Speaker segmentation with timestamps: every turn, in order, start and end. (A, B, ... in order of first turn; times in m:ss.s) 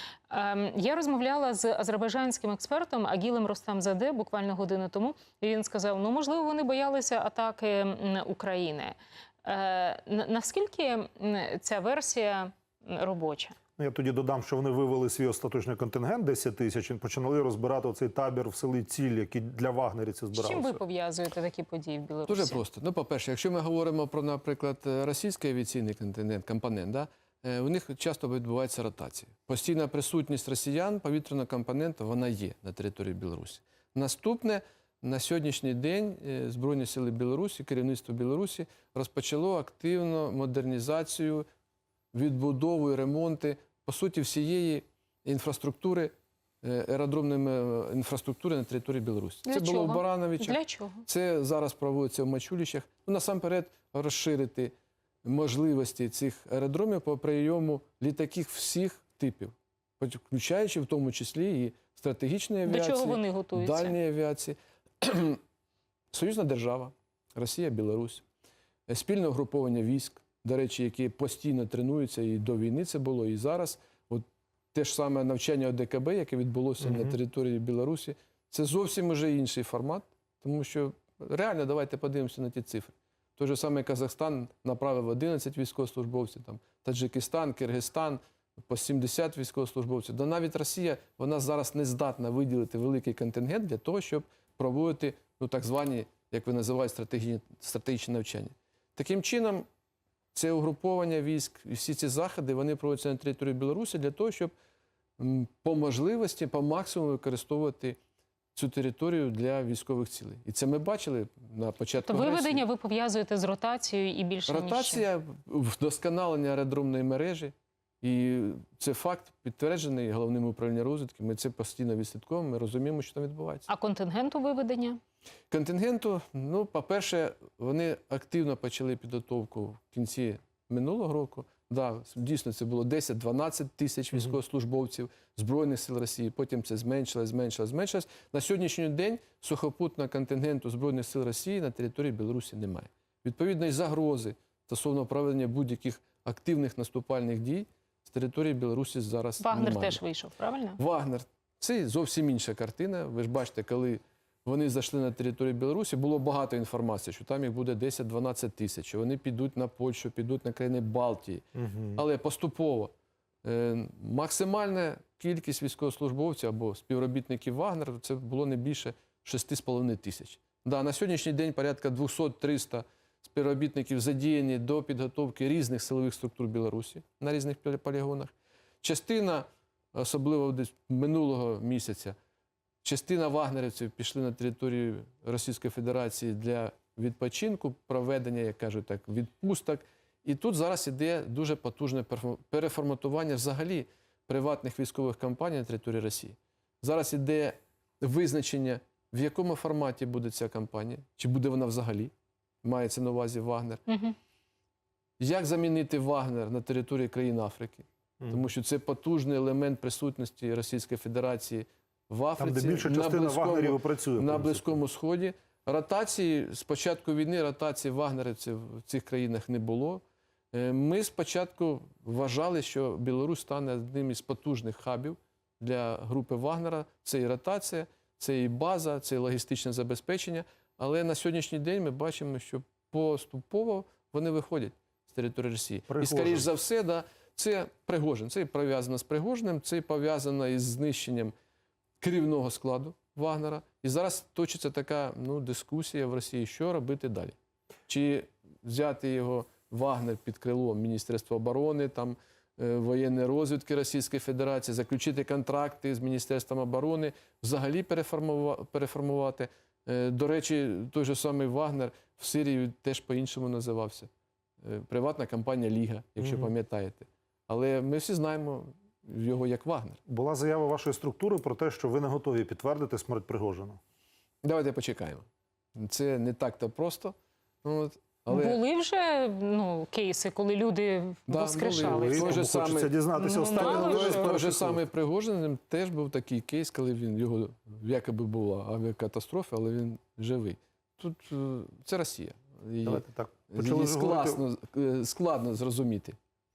0:00.3-0:13.6 A
0:13.8-0:20.8 B
0:20.3-0:22.6 A
0:22.3-0:41.4 C
0:42.1-0:54.7 C
0:49.4-0:51.0 A
0:55.2-1:05.4 C
1:02.6-1:03.9 A
1:06.1-1:08.2 C
1:08.9-1:39.6 C
1:16.8-1:17.1 B
1:40.3-1:44.5 C
1:45.2-1:48.0 C
1:48.5-1:52.6 C
1:52.1-1:55.0 A
1:54.5-2:03.7 C
2:03.7-2:05.0 A
2:05.5-2:30.0 C
2:29.4-2:30.8 A
2:30.8-2:42.9 C
2:41.6-2:42.0 B
2:43.4-2:58.3 C
2:58.8-3:02.2 C
3:02.8-3:22.1 C
3:22.6-3:23.8 C
3:23.9-3:24.2 A
3:25.2-4:01.3 C
3:32.4-3:34.8 B
3:55.9-3:56.5 B
4:02.0-4:07.3 C
4:07.9-4:24.1 C
4:24.6-4:30.0 C
4:26.2-4:26.5 B
4:30.1-4:33.8 B
4:34.4-4:35.2 C
4:35.8-4:38.6 C
4:38.3-4:42.4 A
4:41.3-4:42.9 C
4:41.8-4:44.8 B
4:43.2-4:44.3 A
4:43.5-4:56.2 C
4:52.8-4:54.4 B